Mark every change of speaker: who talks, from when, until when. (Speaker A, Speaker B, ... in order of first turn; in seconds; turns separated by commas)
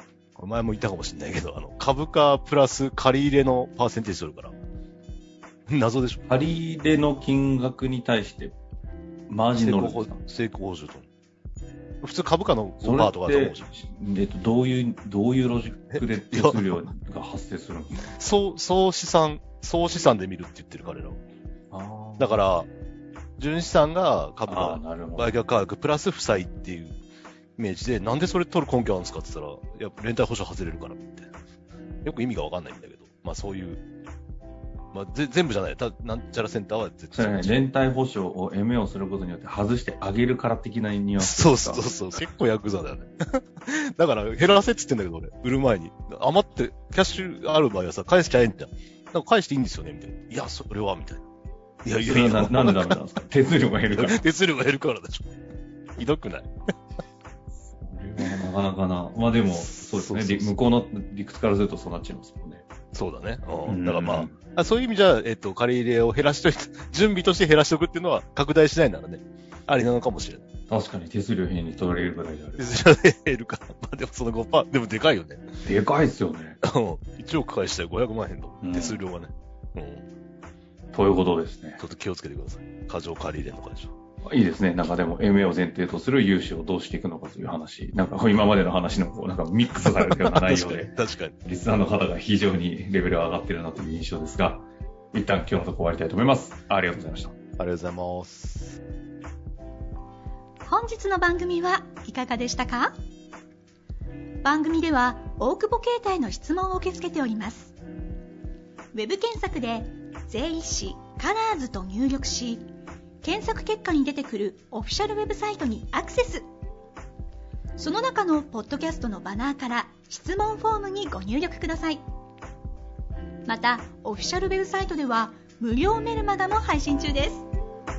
Speaker A: 0.4-4.5, Speaker A: 5.7-6.3, Speaker B: 6.3-8.6, Speaker B: 9.3-10.2, Speaker A: 9.6-11.1, Speaker A: 12.0-13.8, Speaker B: 12.8-18.1, Speaker A: 15.9-16.6, Speaker A: 18.0-21.2, Speaker B: 21.7-22.4, Speaker A: 22.2-22.7, Speaker A: 23.4-27.0, Speaker B: 24.5-25.4, Speaker A: 27.6-31.3, Speaker A: 32.0-33.8, Speaker A: 34.9-37.6, Speaker B: 37.1-41.9, Speaker A: 41.2-51.2, Speaker A: 51.8-53.0, Speaker B: 52.0-54.3, Speaker A: 53.9-55.4, Speaker A: 56.0-56.5, Speaker B: 57.6-62.6, Speaker A: 59.5-60.6, Speaker A: 62.9-70.5, Speaker B: 63.7-64.3, Speaker B: 70.7-72.7, Speaker A: 72.6-75.5, Speaker B: 75.6-76.6, Speaker A: 76.6-80.1, Speaker B: 78.6-79.0, Speaker B: 80.9-81.8, Speaker A: 81.8-83.9, Speaker B: 84.2-90.9, Speaker A: 89.8-91.4, Speaker B: 91.5-97.3, Speaker A: 97.0-98.8, Speaker C: 100.6-102.9, Speaker C: 104.4-107.7, Speaker C: 108.9-112.7, Speaker C: 113.2-116.5, Speaker C: 117.8-122.0, Speaker C: 123.5-127.5